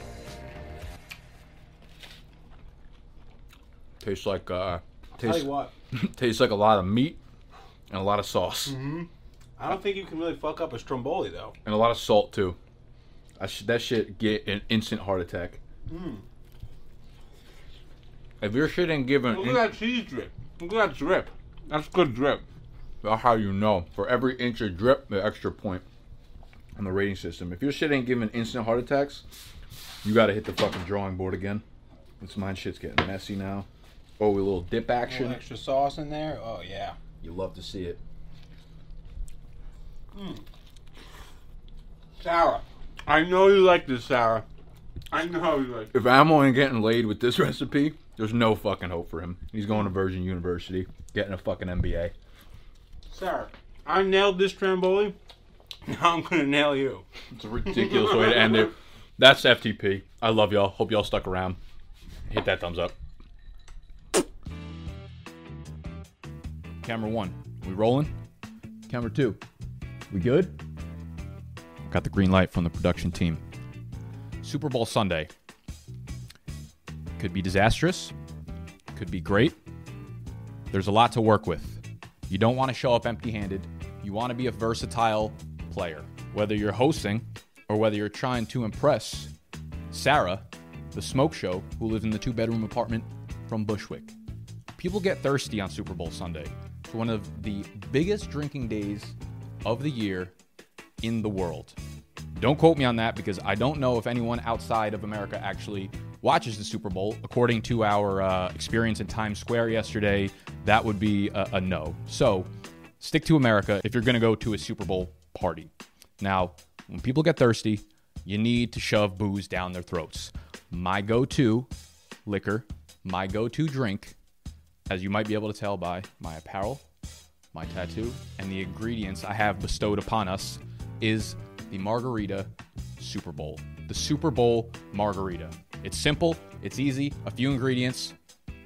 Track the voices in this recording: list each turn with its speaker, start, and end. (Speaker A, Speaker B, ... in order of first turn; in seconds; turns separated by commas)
Speaker A: 4.0-7.2, Speaker B: 5.2-5.7, Speaker A: 7.9-8.8, Speaker B: 8.7-11.6, Speaker A: 11.6-12.6, Speaker A: 13.4-15.6, Speaker B: 15.9-16.2, Speaker A: 18.4-19.6, Speaker B: 19.3-22.4, Speaker A: 23.0-25.8, Speaker A: 26.8-29.2, Speaker A: 30.0-31.6, Speaker A: 32.2-33.7, Speaker A: 34.2-35.4, Speaker B: 35.0-37.0, Speaker A: 37.2-38.0, Speaker B: 40.1-40.4, Speaker B: 42.2-44.4, Speaker B: 45.1-45.9, Speaker A: 45.9-52.1, Speaker B: 53.1-55.1, Speaker B: 55.9-57.0, Speaker A: 57.3-61.6, Speaker B: 58.0-58.7, Speaker A: 62.3-62.9, Speaker A: 66.8-68.1, Speaker A: 68.9-69.4, Speaker A: 70.1-70.5, Speaker A: 71.9-73.4, Speaker A: 74.4-75.3, Speaker A: 77.2-78.1, Speaker A: 79.0-79.5, Speaker A: 80.7-81.7, Speaker A: 82.3-89.3, Speaker A: 89.9-90.4, Speaker A: 90.9-94.1, Speaker A: 94.8-99.1, Speaker A: 99.6-100.3, Speaker A: 101.0-101.7, Speaker A: 102.3-112.4, Speaker A: 113.0-115.7, Speaker A: 116.2-121.7, Speaker A: 122.2-124.1, Speaker A: 124.9-126.8, Speaker A: 127.5-132.5, Speaker A: 133.0-138.1